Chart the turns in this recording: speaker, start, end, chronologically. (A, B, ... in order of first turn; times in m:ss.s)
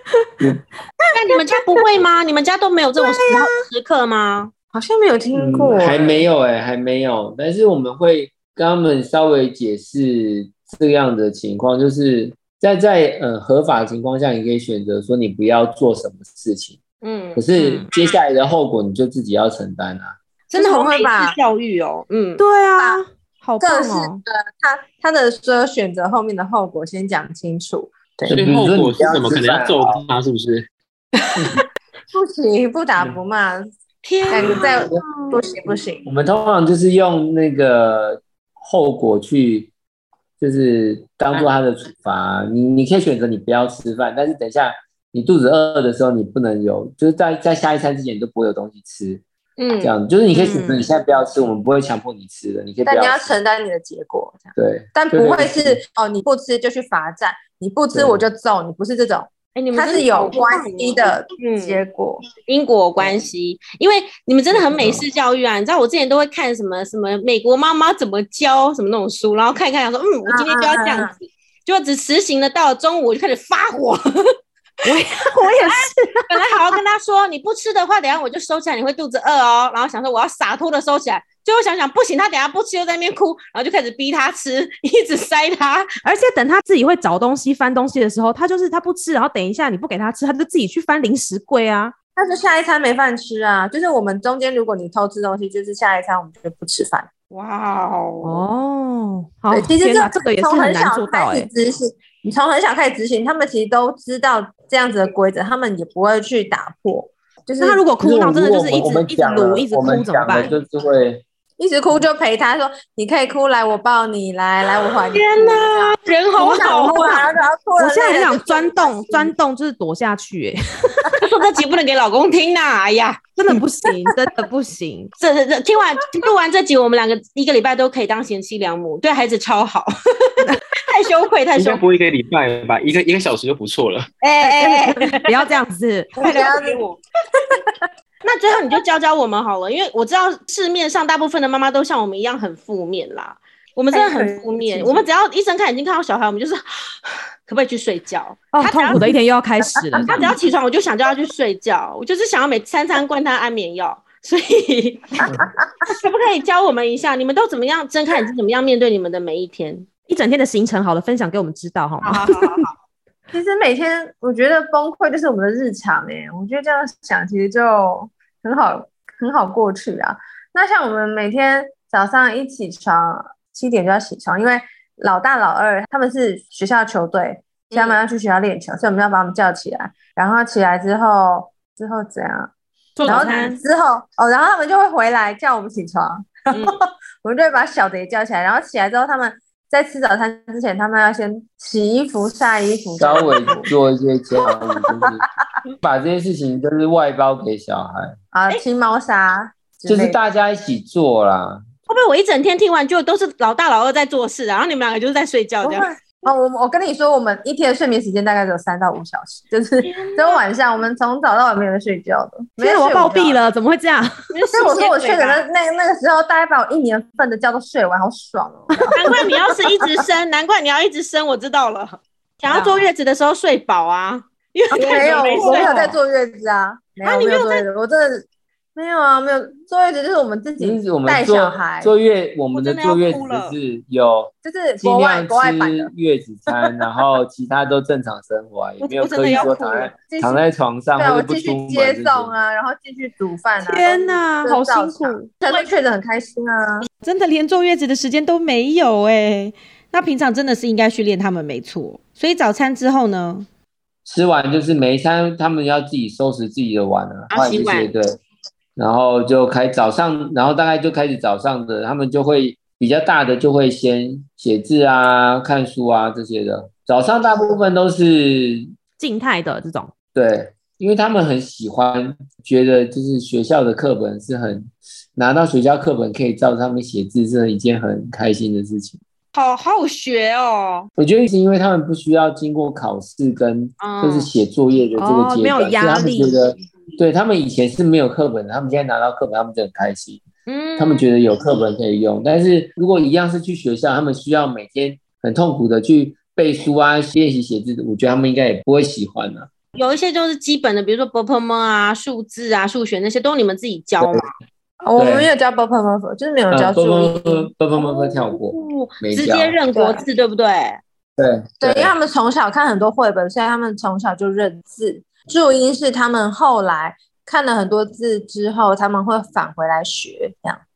0:01.1-0:04.5 A
0:03.0-0:03.6 B
0:04.7-0:06.2 C
0:05.3-0:16.8 D
0:17.0-0:17.5 A
0:17.4-0:20.2 D
0:17.5-0:17.9 B
0:20.5-0:21.4 C
0:20.5-0:22.4 A
0:22.4-0:24.2 B
0:23.6-0:28.4 C
0:28.3-0:30.7 E
0:28.3-0:30.0 D
0:32.1-0:33.7 C
0:34.0-0:35.4 A
0:34.3-0:36.1 C
0:34.3-0:35.0 D
0:36.0-0:39.7 D
0:40.4-0:49.2 D
0:49.6-0:49.9 A
0:49.8-0:53.4 D
0:50.4-0:50.8 B
0:52.8-1:02.3 C
0:54.6-0:55.8 D
0:57.9-0:58.3 D
0:59.6-1:01.8 A
1:02.5-1:11.2 A
1:04.5-1:05.1 D
1:10.3-1:11.1 C
1:11.7-1:14.2 A
1:14.8-1:16.4 B
1:14.9-1:25.9 A
1:26.0-1:31.9 B
1:32.2-1:37.1 C
1:37.3-1:38.4 A
1:38.2-1:41.5 B
1:39.5-1:47.8 C
1:47.6-1:50.6 B
1:48.0-1:51.2 D
1:51.6-1:59.3 C
1:55.1-1:57.3 A
1:56.4-1:57.1 B
1:57.8-2:01.2 B
2:01.2-2:03.3 A
2:03.4-2:05.1 B
2:05.2-2:11.8 A
2:11.5-2:14.1 E
2:14.2-2:15.5 A
2:14.4-2:16.2 B
2:16.2-2:16.8 C
2:16.2-2:17.0 A
2:17.4-2:17.8 C
2:18.2-2:29.0 A
2:23.9-2:25.1 C
2:28.5-2:30.3 B
2:29.8-2:30.2 C
2:30.0-2:35.3 A
2:35.2-2:35.8 C
2:35.8-2:39.9 A
2:40.1-2:42.6 B
2:42.0-2:42.7 A
2:43.3-3:02.5 C
2:57.7-2:58.0 A
3:03.0-3:03.5 B
3:03.0-3:03.6 A
3:03.0-3:13.7 C
3:06.5-3:06.8 A
3:13.0-3:15.3 D
3:15.8-3:18.2 D
3:18.3-3:20.2 C
3:19.9-3:21.6 D
3:21.9-3:25.9 A
3:25.6-3:33.4 C
3:29.8-3:30.4 A
3:32.6-3:34.1 B
3:34.3-3:35.5 A
3:34.5-3:40.0 C
3:38.7-3:39.0 B
3:38.9-3:46.0 A
3:44.7-3:51.9 C
3:45.2-3:45.9 B
3:47.0-3:47.6 A
3:50.6-4:02.3 D
3:52.5-3:53.5 A
3:54.4-3:55.9 C
3:58.8-3:59.9 A
4:00.1-4:00.4 C
4:01.0-4:06.9 C
4:03.6-4:05.3 B
4:07.0-4:13.5 F
4:14.0-4:18.2 D
4:17.3-4:17.9 A
4:18.8-4:28.7 D
4:29.0-4:29.9 B
4:30.1-4:39.0 D
4:39.3-4:40.9 A
4:41.0-4:50.2 D
4:43.8-4:44.3 A
4:45.0-4:46.4 B
4:50.5-4:51.1 A
4:50.8-4:59.5 D
4:59.8-5:04.3 A
5:04.8-5:07.5 C
5:05.0-5:05.3 D
5:06.5-5:09.6 D
5:07.8-5:10.8 A
5:09.7-5:10.0 C
5:11.2-5:11.9 D
5:11.6-5:20.6 C